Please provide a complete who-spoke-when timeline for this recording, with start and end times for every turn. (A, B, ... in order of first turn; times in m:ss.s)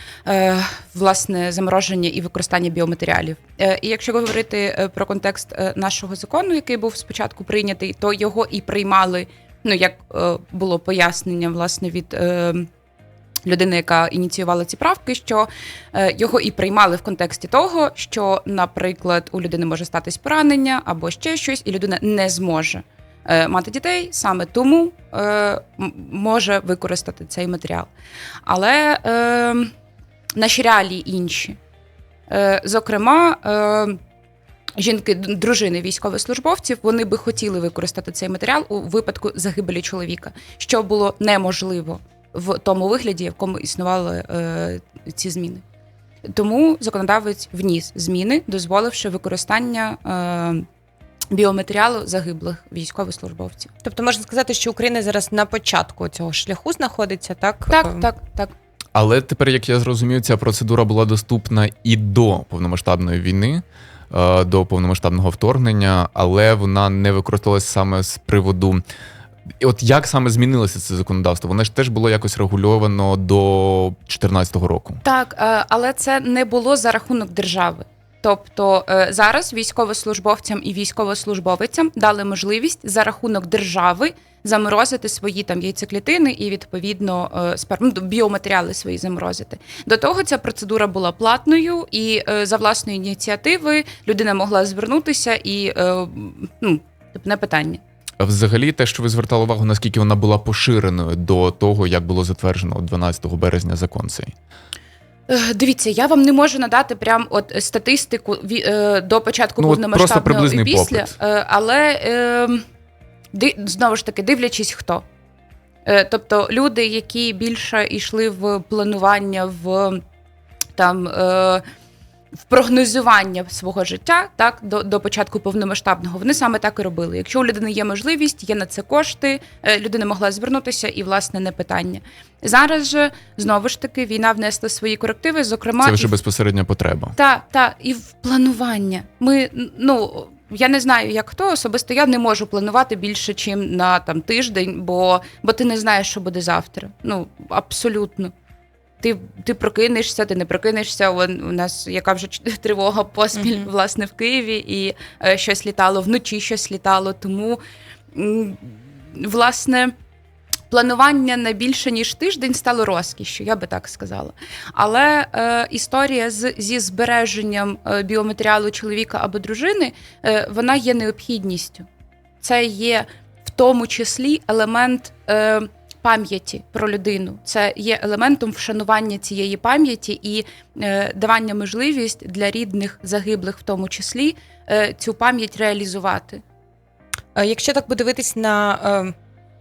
0:00.2-0:12.7 A
0:13.4-0:27.9 A
0:28.4-0:29.7 A
0:30.4-0:31.6 A
0:32.3-0:34.0 A
0:34.8-0:45.6 A
0:46.3-0:50.7 A
0:51.3-0:53.7 A
0:53.8-0:58.1 B
0:57.7-0:58.5 A
0:58.9-1:08.8 C
1:09.6-1:15.0 C
1:15.0-1:37.8 A
1:38.2-1:44.3 C
1:45.3-1:52.6 A
1:49.6-1:51.1 C
1:53.3-1:55.0 A
1:55.8-2:00.0 A
2:00.8-2:01.6 A
2:02.4-2:16.1 A
2:15.8-2:17.1 C
2:17.2-2:28.3 A
2:29.0-2:37.6 A
2:33.4-2:33.7 B
2:38.1-2:39.9 A
2:40.7-2:51.8 A
2:52.4-3:06.4 A
3:07.3-3:09.1 B